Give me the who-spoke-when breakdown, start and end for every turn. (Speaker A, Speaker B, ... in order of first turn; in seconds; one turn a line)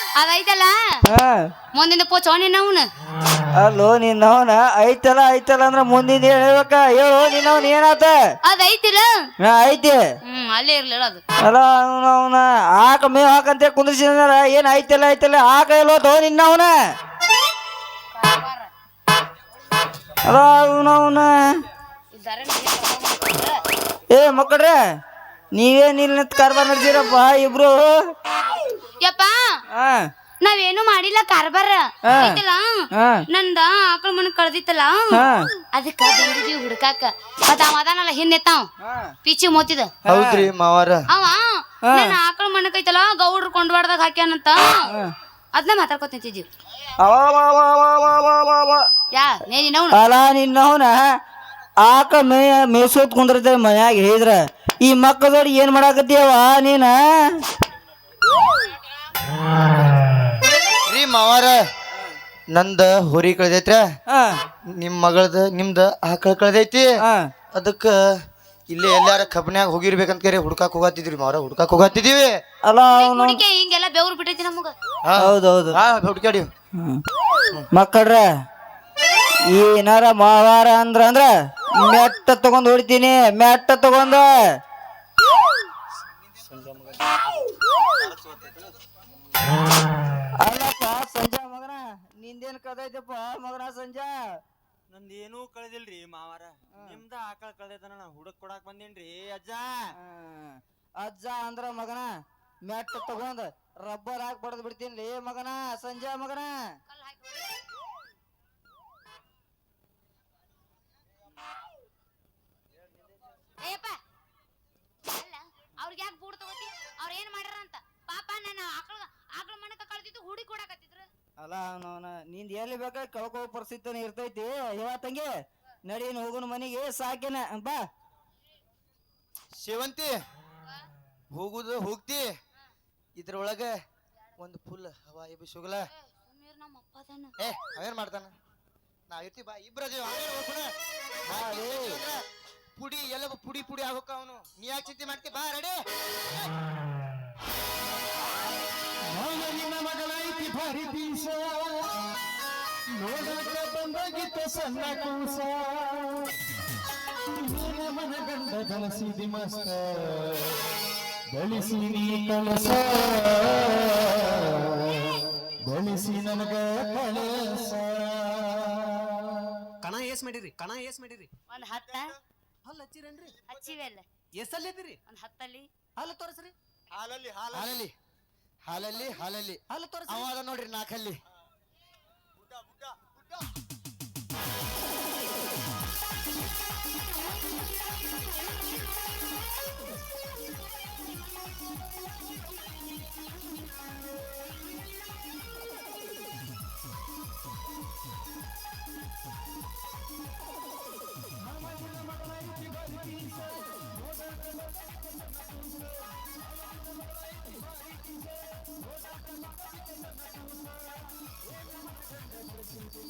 Speaker A: 0.2-1.0
Speaker B: 1.1-1.5
Speaker A: 1.7-2.9
Speaker B: 3.6-8.2
Speaker A: 8.4-9.3
Speaker B: 9.4-10.0
Speaker A: 10.2-11.2
Speaker B: 11.5-16.7
Speaker A: 18.1-18.7
Speaker B: 20.3-21.6
Speaker A: 22.1-23.6
Speaker B: 24.1-24.8
Speaker B: 25.5-28.1
Speaker A: 29.0-29.4
Speaker B: 29.7-30.1
Speaker A: 30.4-38.7
Speaker B: 32.1-32.4
Speaker B: 32.9-33.2
Speaker B: 35.1-35.5
Speaker B: 38.8-39.1
Speaker A: 39.2-39.9
Speaker B: 40.1-40.5
Speaker C: 40.1-41.0
Speaker A: 41.1-44.9
Speaker B: 41.9-42.2
Speaker B: 44.9-45.1
Speaker A: 45.5-46.5
Speaker B: 47.0-48.9
Speaker A: 49.1-50.0
Speaker B: 49.9-51.2
Speaker B: 51.8-57.4
Speaker C: 60.9-61.6
Speaker C: 62.5-63.8
Speaker B: 64.1-64.4
Speaker C: 64.8-66.9
Speaker B: 67.0-67.3
Speaker C: 67.5-68.0
Speaker C: 68.7-72.4
Speaker B: 72.7-73.4
Speaker A: 72.9-74.7
Speaker C: 75.0-76.5
Speaker B: 75.2-75.8
Speaker B: 76.8-77.0
Speaker B: 77.7-78.3
Speaker B: 79.5-84.6
Speaker C: 86.5-87.1
Speaker D: 88.0-88.7
Speaker B: 90.4-94.2
Speaker D: 94.9-99.9
Speaker B: 100.0-106.7
Speaker A: 106.9-107.5
Speaker A: 113.6-114.0
Speaker A: 115.1-121.1
Speaker B: 121.4-125.3
Speaker B: 125.9-127.8
Speaker C: 129.6-130.2
Speaker C: 131.3-132.3
Speaker C: 133.2-133.7
Speaker C: 134.4-135.9
Speaker A: 135.9-137.3
Speaker C: 137.4-138.3
Speaker C: 139.1-140.7
Speaker B: 141.3-142.0
Speaker C: 141.3-142.2
Speaker C: 142.8-145.8
Speaker E: 149.1-151.9
Speaker E: 152.9-156.3
Speaker E: 157.3-160.4
Speaker E: 161.3-165.0
Speaker E: 165.6-168.7
Speaker F: 169.8-171.3
Speaker A: 171.5-172.1
Speaker F: 172.7-173.4
Speaker A: 173.4-174.1
Speaker F: 174.4-175.0
Speaker A: 175.1-175.7
Speaker F: 176.0-176.5
Speaker D: 176.9-177.7
Speaker C: 177.5-177.9
Speaker C: 178.7-181.2
Speaker F: 179.7-180.0
Speaker B: 179.8-180.2
Speaker D: 182.6-182.9